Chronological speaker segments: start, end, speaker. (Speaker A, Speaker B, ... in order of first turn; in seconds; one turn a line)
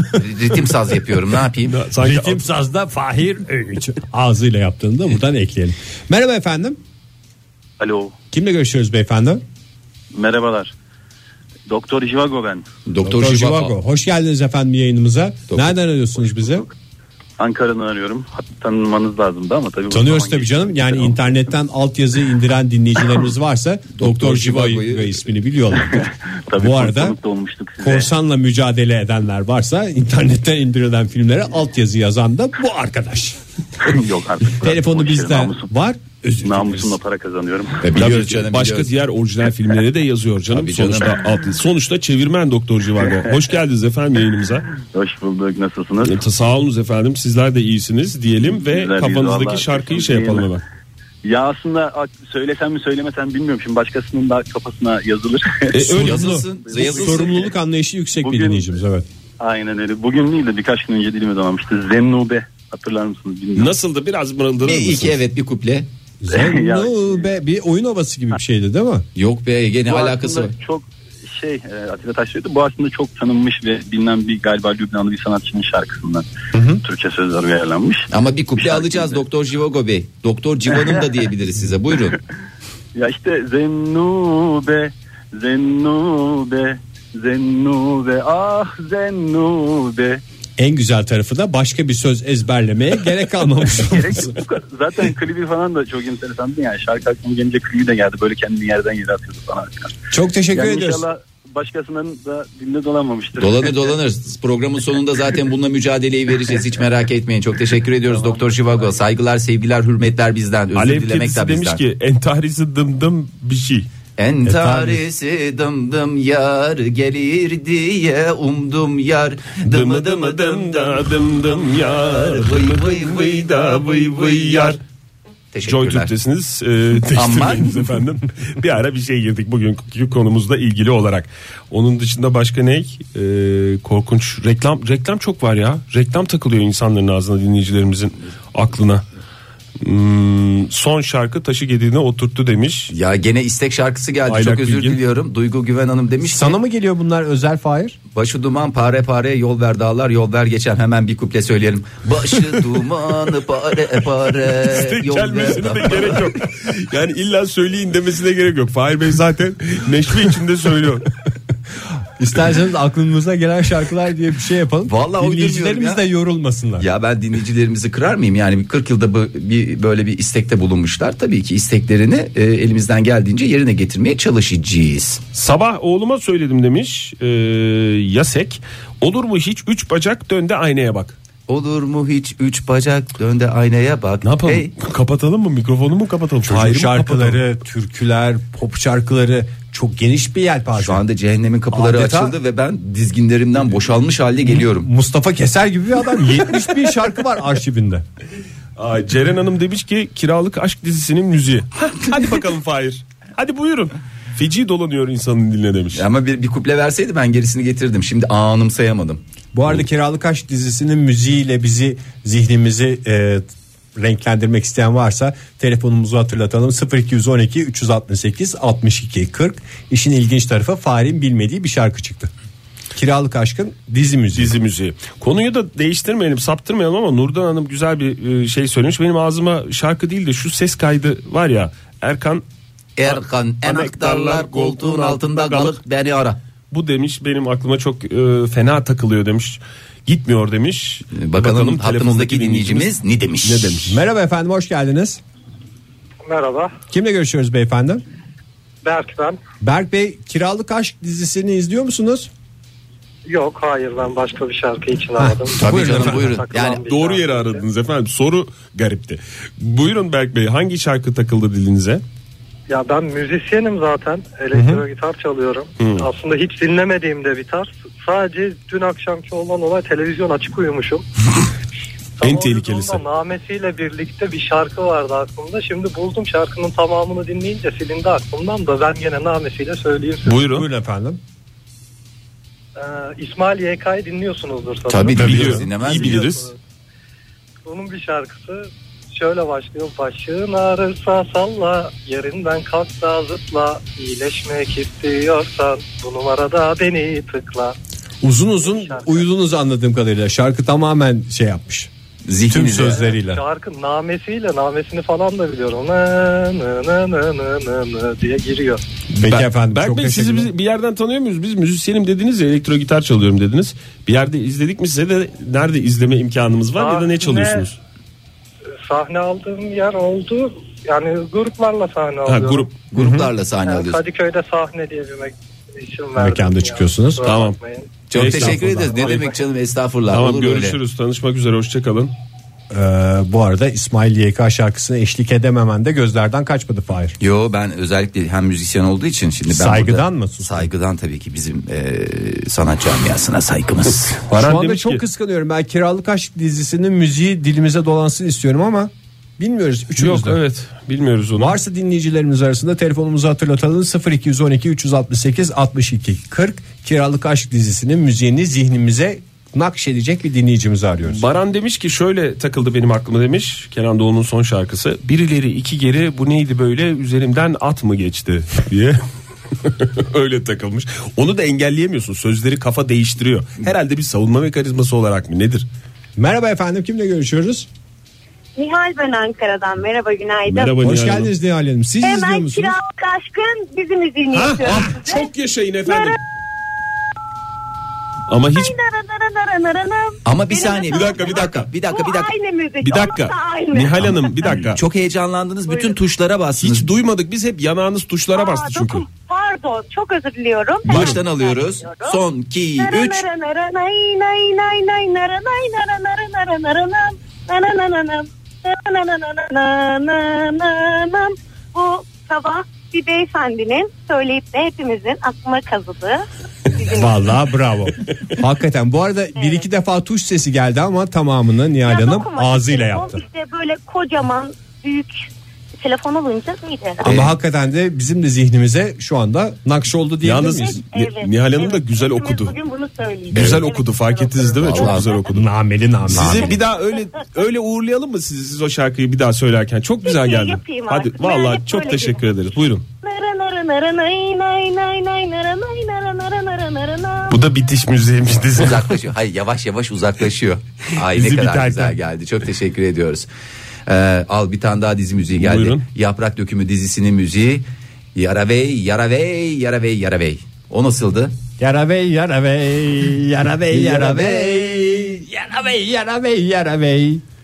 Speaker A: 0.1-1.8
Speaker B: 1.6-2.4
Speaker C: 2.0-6.8
Speaker D: 7.8-8.1
Speaker C: 8.3-9.4
Speaker D: 10.1-10.7
Speaker D: 11.7-12.6
Speaker A: 12.9-13.7
Speaker C: 13.0-16.7
Speaker D: 17.4-21.4
Speaker C: 19.9-27.2
Speaker A: 23.9-25.2
Speaker D: 26.0-28.1
Speaker C: 27.8-33.4
Speaker D: 33.8-35.7
Speaker C: 34.6-37.0
Speaker D: 36.4-37.8
Speaker A: 37.8-38.9
Speaker B: 37.9-44.7
Speaker A: 40.5-41.2
Speaker D: 44.9-46.2
Speaker B: 46.0-50.6
Speaker D: 48.4-50.5
Speaker D: 51.2-55.8
Speaker B: 55.7-56.4
Speaker A: 55.9-57.5
Speaker C: 56.0-59.1
Speaker D: 56.7-57.3
Speaker D: 58.2-58.7
Speaker D: 59.4-63.7
Speaker B: 63.5-65.2
Speaker A: 64.6-65.9
Speaker C: 66.2-69.0
Speaker D: 66.3-67.2
Speaker A: 69.1-70.5
Speaker D: 69.9-76.3
Speaker C: 76.5-76.8
Speaker D: 76.8-79.2
Speaker A: 78.1-82.2
Speaker D: 82.9-90.2
Speaker C: 90.6-94.3
Speaker D: 93.8-100.0
Speaker C: 100.1-101.0
Speaker D: 100.5-103.9
Speaker A: 103.4-111.8
Speaker D: 108.1-109.0
Speaker B: 110.7-113.9
Speaker A: 114.2-124.8
Speaker C: 114.5-115.0
Speaker B: 119.6-124.8
Speaker A: 125.5-126.1
Speaker B: 125.6-139.0
Speaker A: 127.2-127.9
Speaker B: 139.8-142.9
Speaker A: 142.9-146.6
Speaker B: 144.2-145.0
Speaker C: 146.2-148.0
Speaker A: 148.1-156.3
Speaker B: 154.4-161.1
Speaker C: 162.2-166.8
Speaker A: 164.8-166.0
Speaker A: 166.8-175.2
Speaker B: 175.3-181.1
Speaker A: 181.5-184.7
Speaker B: 184.2-187.4
Speaker C: 186.4-191.0
Speaker A: 190.8-194.9
Speaker C: 191.7-192.3
Speaker C: 194.5-198.0
Speaker B: 198.8-206.0
Speaker A: 205.9-209.2
Speaker C: 209.5-213.4
Speaker C: 213.9-222.3
Speaker C: 222.9-224.6
Speaker B: 224.3-232.4
Speaker A: 233.0-236.4
Speaker B: 233.1-235.8
Speaker B: 236.7-244.0
Speaker A: 241.1-243.8
Speaker C: 243.9-245.2
Speaker E: 246.2-246.7
Speaker C: 246.9-248.0
Speaker E: 248.8-249.4
Speaker C: 249.6-252.3
Speaker E: 253.3-257.6
Speaker C: 255.2-256.4
Speaker A: 255.6-256.9
Speaker B: 256.8-262.0
Speaker E: 262.7-271.0
Speaker C: 264.5-264.8
Speaker B: 265.8-266.1
Speaker E: 272.2-280.4
Speaker B: 272.2-273.0
Speaker B: 280.2-280.6
Speaker C: 280.5-281.2
Speaker E: 282.8-286.5
Speaker A: 284.9-286.3
Speaker B: 285.2-286.4
Speaker E: 287.6-297.8
Speaker C: 298.2-301.9
Speaker E: 298.6-299.3
Speaker A: 302.2-303.1
Speaker C: 302.5-303.4
Speaker E: 302.9-308.8
Speaker C: 309.1-310.5
Speaker B: 309.2-317.8
Speaker E: 316.8-317.7
Speaker E: 318.8-322.7
Speaker B: 322.2-322.7
Speaker A: 322.9-324.0
Speaker C: 322.9-323.3
Speaker E: 323.6-328.0
Speaker C: 326.2-327.3
Speaker B: 327.2-327.6
Speaker A: 328.1-330.8
Speaker B: 328.1-329.2
Speaker C: 328.1-329.0
Speaker B: 330.1-332.1
Speaker C: 332.7-337.1
Speaker A: 337.2-344.2
Speaker C: 339.5-340.7
Speaker B: 344.1-345.0
Speaker C: 344.3-350.4
Speaker B: 350.0-351.6
Speaker C: 351.4-361.3
Speaker B: 361.1-369.0
Speaker B: 369.6-375.6
Speaker C: 376.2-377.7
Speaker F: 378.6-380.9
Speaker B: 380.5-381.3
Speaker C: 380.8-382.8
Speaker F: 382.0-385.3
Speaker B: 384.3-386.2
Speaker F: 385.8-386.2
Speaker B: 388.3-388.7
Speaker F: 388.4-394.7
Speaker A: 390.2-392.3
Speaker B: 390.9-391.7
Speaker B: 392.8-394.8
Speaker A: 394.7-396.9
Speaker F: 395.7-395.9
Speaker B: 396.6-399.1
Speaker F: 398.3-402.2
Speaker A: 400.9-403.2
Speaker B: 400.9-401.2
Speaker F: 402.8-417.1
Speaker C: 416.9-423.2
Speaker F: 419.4-419.6
Speaker F: 421.8-425.3
Speaker F: 425.8-427.1
Speaker C: 427.0-430.8
Speaker B: 430.2-432.6
Speaker F: 430.6-435.3
Speaker B: 433.3-435.4
Speaker A: 433.4-433.6
Speaker A: 434.6-435.1
Speaker C: 435.3-436.6
Speaker B: 436.1-442.8
Speaker F: 436.4-437.2
Speaker F: 440.0-447.4
Speaker B: 447.3-449.0
Speaker A: 448.6-453.3
Speaker B: 451.0-452.0
Speaker A: 453.9-461.3
Speaker B: 455.4-455.8
Speaker C: 461.6-467.2
Speaker A: 463.7-464.6